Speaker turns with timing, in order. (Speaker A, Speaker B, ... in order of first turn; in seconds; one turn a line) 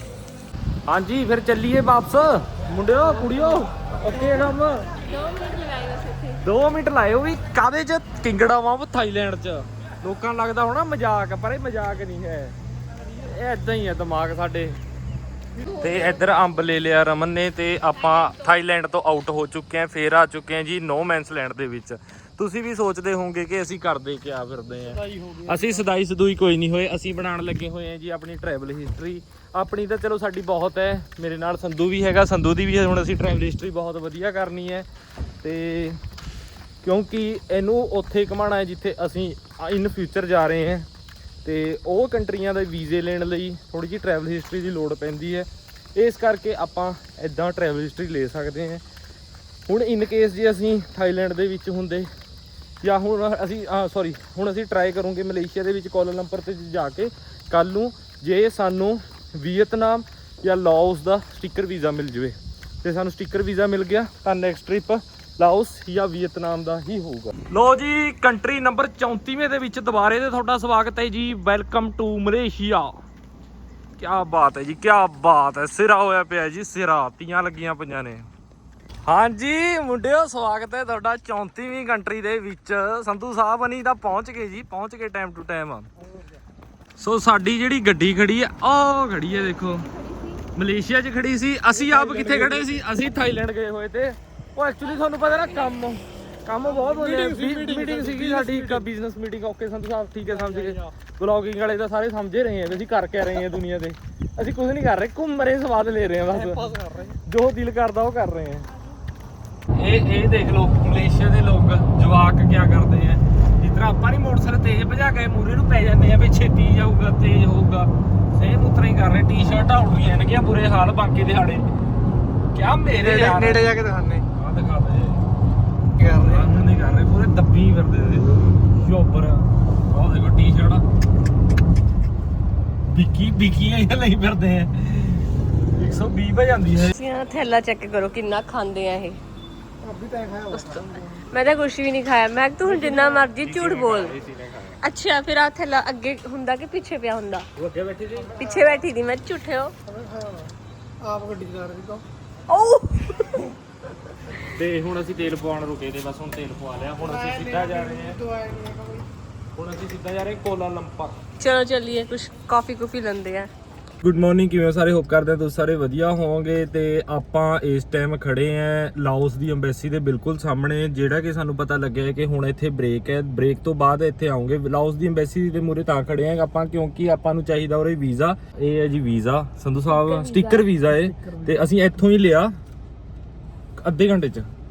Speaker A: 0.9-5.0
Speaker B: 5.0-6.4
Speaker A: 6.4-12.6
Speaker A: 13.1-14.8
Speaker A: 15.7-34.9
Speaker A: 35.4-36.0
Speaker A: 36.8-40.9
Speaker A: 41.5-48.8
Speaker A: 49.7-52.1
Speaker A: 52.8-73.0
Speaker A: 74.0-78.3
Speaker A: 79.0-85.9
Speaker A: 87.0-89.9
Speaker B: 89.7-90.4
Speaker A: 90.5-108.7
Speaker C: 97.2-98.5
Speaker C: 106.6-107.0
Speaker A: 109.7-121.7
Speaker A: 122.5-125.2
Speaker C: 123.2-124.2
Speaker A: 126.0-130.8
Speaker A: 132.8-136.9
Speaker B: 136.9-139.2
Speaker C: 139.9-140.5
Speaker B: 140.4-144.1
Speaker A: 142.7-144.8
Speaker B: 144.8-147.5
Speaker A: 147.6-148.4
Speaker B: 148.4-149.8
Speaker C: 151.1-152.0
Speaker B: 152.5-153.5
Speaker A: 154.3-158.3
Speaker C: 158.5-158.9
Speaker A: 159.6-161.2
Speaker B: 161.4-163.5
Speaker A: 164.0-182.6
Speaker B: 180.0-180.7
Speaker A: 183.8-184.5